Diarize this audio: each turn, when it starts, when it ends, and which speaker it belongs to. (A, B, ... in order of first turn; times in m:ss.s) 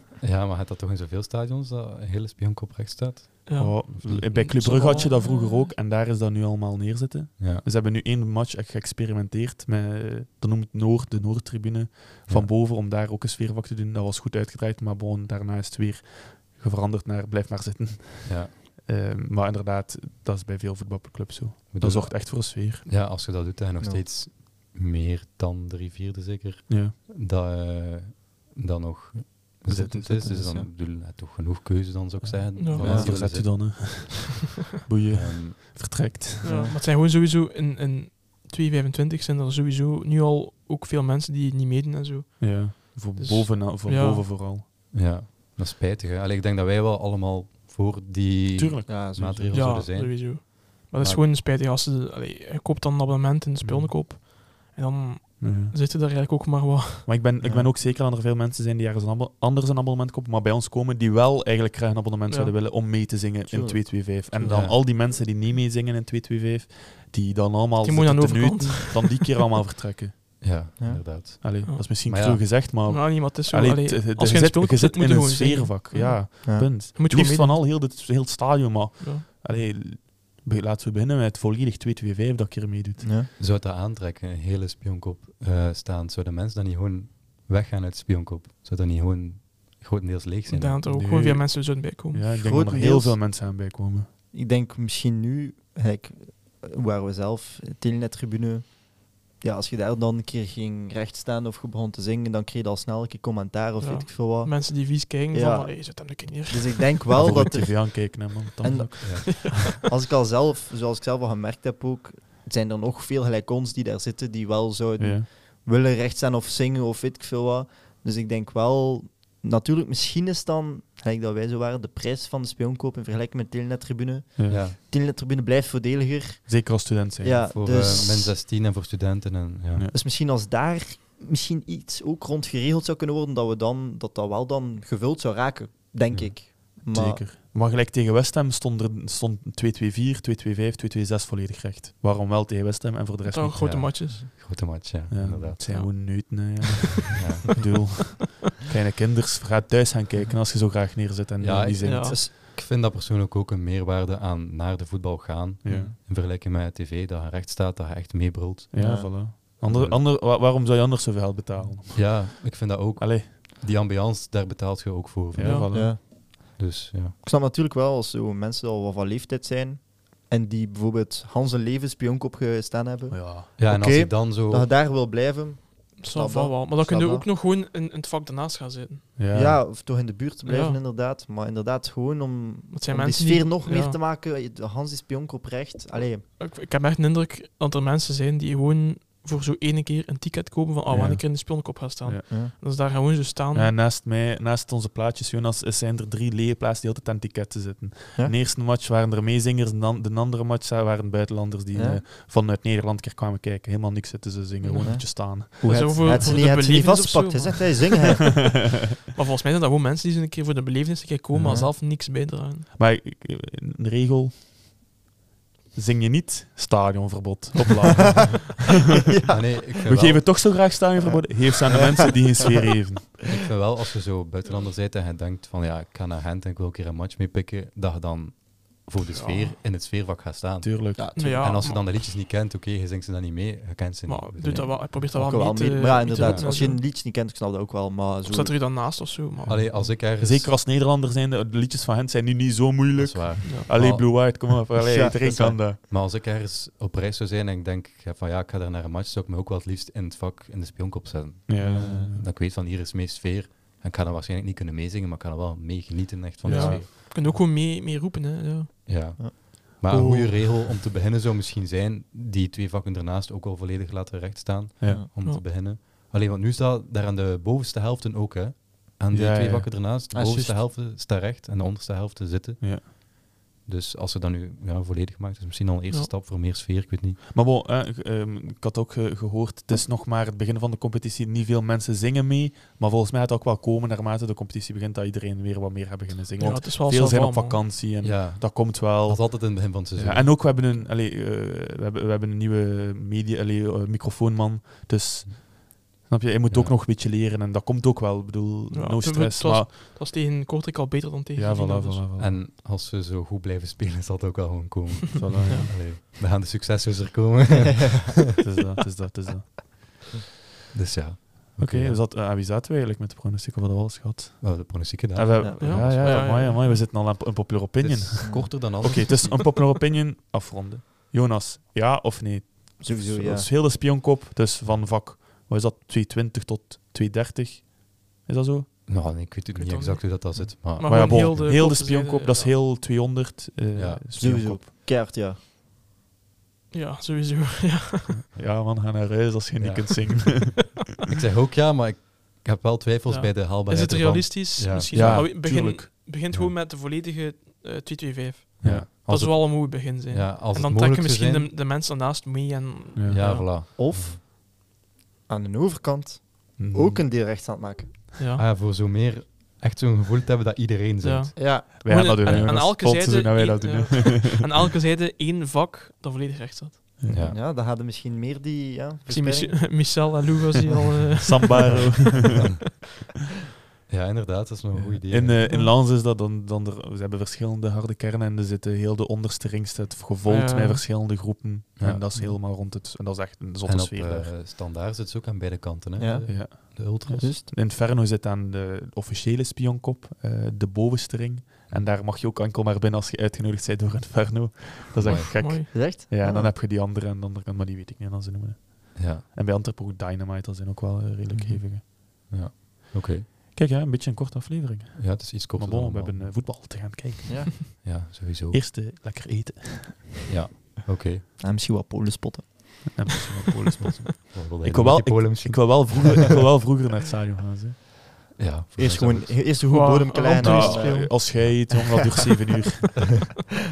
0:00.2-0:04.5 A
0:03.5-0:05.7 B
0:03.6-0:22.9 C
0:07.4-0:07.6 A
0:18.2-0:18.5 A
0:21.7-0:33.8 A
0:26.7-0:27.0 C
0:29.7-0:30.6 C
0:30.2-0:30.7 D
0:32.2-0:36.6 C
0:32.6-0:32.9 B
0:32.8-0:33.2 D
0:35.1-0:35.6 A
0:36.4-0:36.8 D
0:36.4-0:44.2 B
0:42.4-0:44.6 C
0:44.9-0:51.2 A
0:48.6-0:48.9 C
0:48.9-0:49.8 D
0:49.5-0:57.1 B
0:53.6-0:54.0 C
0:55.4-0:55.7 C
0:57.1-1:10.7 C
0:57.4-0:57.7 D
1:03.4-1:04.4 D
1:04.4-1:05.0 A
1:07.8-1:09.4 B
1:10.4-1:12.4 A
1:10.8-1:11.0 D
1:11.4-1:23.1 C
1:12.8-1:17.6 B
1:23.0-1:23.3 D
1:23.4-1:30.8 A
1:30.5-1:32.3 B
1:30.9-1:34.1 C
1:32.3-1:33.2 D
1:34.3-2:08.4 D
1:43.8-1:46.9 B
1:47.1-1:49.4 C
1:49.0-1:49.3 A
1:49.3-1:49.8 B
1:55.0-1:55.3 C
2:04.4-2:04.6 C
2:04.5-2:04.8 A
2:06.5-2:07.8 C
2:07.5-2:09.9 A
2:09.9-2:17.2 D
2:16.1-2:16.4 A
2:16.8-2:23.9 C
2:23.2-2:24.3 B
2:23.6-2:25.8 A
2:25.1-2:32.2 C
2:25.6-2:26.6 B
2:27.2-2:27.5 A
2:31.4-2:40.0 A
2:31.8-2:32.2 B
2:32.1-2:32.3 D
2:35.6-2:36.0 C
2:38.7-2:43.3 C
2:38.7-2:39.2 D
2:41.9-2:47.2 A
2:45.3-2:46.0 C
2:45.4-2:45.7 B
2:45.7-2:46.0 D
2:47.2-2:57.3 D
2:53.1-2:53.5 C
2:53.6-2:54.7 A
2:56.0-2:59.1 B
2:59.2-2:59.6 C
2:59.3-3:06.3 D
3:00.4-3:00.8 B
3:02.7-3:04.0 B
3:06.4-3:13.7 B
3:10.9-3:12.2 C
3:13.5-3:26.2 C
3:21.7-3:22.0 D
3:24.6-3:28.4 B
3:24.8-3:28.4 D
3:29.1-3:32.7 B
3:31.3-3:31.8 C
3:31.4-3:31.7 D
3:32.8-3:34.5 C
3:35.7-3:38.7 C
3:39.3-3:40.6 A
3:39.9-3:43.3 C
3:43.3-3:54.8 A
3:49.1-3:49.6 B
3:50.6-3:51.1 C
3:51.0-3:51.6 D
3:51.2-3:52.0 B
3:54.1-3:56.8 B
3:54.4-3:58.6 D
3:56.2-3:56.5 A
3:58.3-3:59.9 B
3:59.4-4:05.8 C
3:59.5-4:00.6 A
4:03.0-4:04.4 A
4:04.8-4:05.6 D
4:05.9-4:17.1 A
4:11.5-4:12.3 C
4:11.6-4:12.2 D
4:16.4-4:16.8 C
4:16.5-4:18.8 B
4:18.9-4:33.0 A
4:19.2-4:20.6 D
4:29.1-4:29.8 C
4:30.1-4:30.6 D
4:33.6-4:37.2 A
4:37.3-4:59.7 C
4:46.4-4:47.8 B
4:48.0-4:50.6 A
4:56.5-4:56.8 A
4:58.7-5:02.0 B
5:01.4-5:02.4 C
5:02.2-5:08.2 A
5:05.2-5:05.8 C
5:05.4-5:05.7 B
5:08.4-5:09.9 C
5:10.7-5:12.0 A
5:11.6-5:28.7 C
5:14.4-5:16.3 A
5:15.4-5:16.6 D
5:15.6-5:16.8 B
5:17.8-5:19.5 A
5:18.2-5:19.0 D
5:22.8-5:23.5 D
5:28.9-5:31.5 A
5:29.5-5:32.6 B
5:30.4-5:34.6 C
5:33.8-5:34.4 A
5:34.2-5:35.4 D
5:36.7-5:38.2 B
5:38.2-5:40.8 C
5:39.6-5:40.5 A
5:41.2-5:45.3 A
5:43.1-5:53.4 B
5:44.9-5:46.4 C
5:48.6-5:51.5 A
5:48.6-5:48.9 C
5:53.0-5:53.2 C
5:53.1-5:54.2 A
5:53.8-5:54.2 D
5:55.3-5:58.0 D
5:56.6-5:57.0 C
5:58.2-5:58.4 B
5:58.4-6:01.4 A
6:01.0-6:07.0 B
6:01.4-6:01.7 D
6:01.8-6:04.4 C
6:02.2-6:02.5 A
6:07.0-6:07.3 C
6:07.1-6:07.4 A
6:07.2-6:10.1 D
6:09.1-6:12.4 B
6:11.2-6:12.3 C
6:13.9-6:15.5 A
6:14.7-6:24.4 C
6:15.4-6:15.7 B
6:20.3-6:20.8 B
6:21.8-6:22.2 A
6:23.6-6:27.3 A
6:26.0-6:27.5 D
6:26.3-6:41.9 C
6:35.0-6:35.3 A
6:35.4-6:35.7 B
6:35.7-6:36.5 D
6:39.0-6:39.2 A
6:41.3-6:41.6 D
6:41.8-6:43.3 A
6:43.5-6:47.8 C
6:45.0-6:46.3 A
6:47.8-6:48.6 A
6:48.5-6:50.3 C
6:50.3-6:51.2 A
6:51.4-6:53.1 D
6:52.9-6:57.8 C
6:54.3-6:56.1 A
6:58.4-6:59.4 A
6:58.8-7:01.2 D
6:59.7-7:01.4 B
7:00.4-7:03.2 C